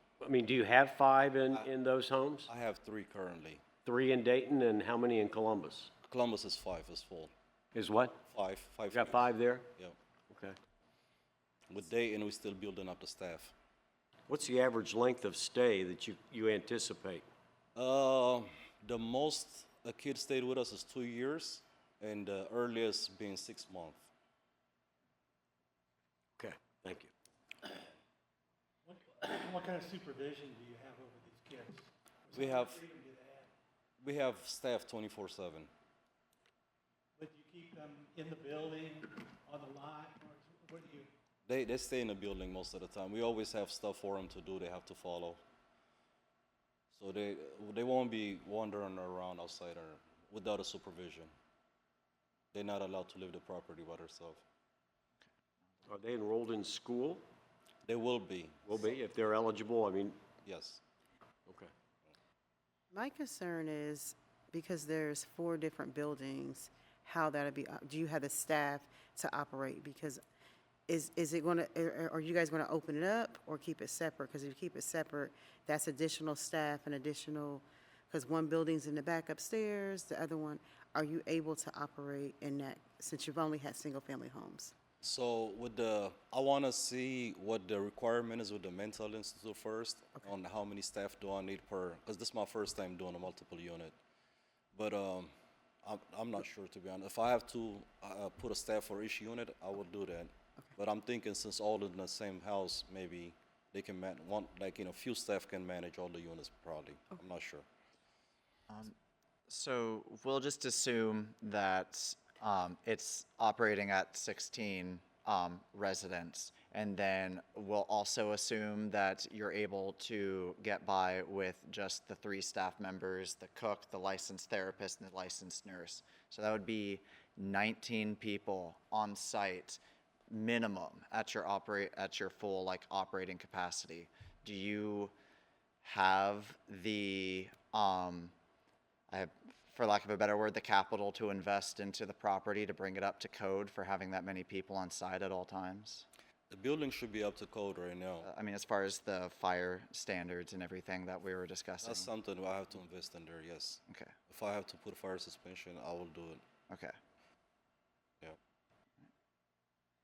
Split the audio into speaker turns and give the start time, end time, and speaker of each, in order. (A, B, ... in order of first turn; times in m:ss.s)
0:00.2-0:02.5 A
0:02.5-0:03.7 B
0:03.8-0:05.9 A
0:06.0-0:07.3 B
0:07.8-0:08.2 A
0:08.2-0:10.0 B
0:08.9-0:09.7 A
0:10.3-0:10.6 A
0:11.7-0:13.5 B
0:14.3-0:17.3 A
0:17.8-0:24.1 B
0:26.4-0:27.1 A
0:28.9-0:33.5 C
0:32.3-0:32.8 B
0:34.0-0:35.7 B
0:37.2-0:41.1 C
0:41.5-0:45.4 B
0:46.9-0:51.3 B
0:52.5-0:54.4 B
0:55.9-0:57.2 A
0:57.9-0:58.6 B
0:58.7-1:00.2 A
1:00.4-1:00.8 B
1:01.5-1:01.7 A
1:02.9-1:10.2 D
1:10.9-1:24.7 D
1:25.0-1:34.0 B
1:34.7-1:35.3 B
1:35.8-1:47.7 B
1:48.7-1:49.0 E
1:49.5-2:15.1 E
2:15.8-2:18.3 E
2:19.1-2:26.1 E
2:26.5-2:28.3 B
2:28.2-2:32.1 E
2:31.8-2:36.4 B
2:33.9-2:34.1 E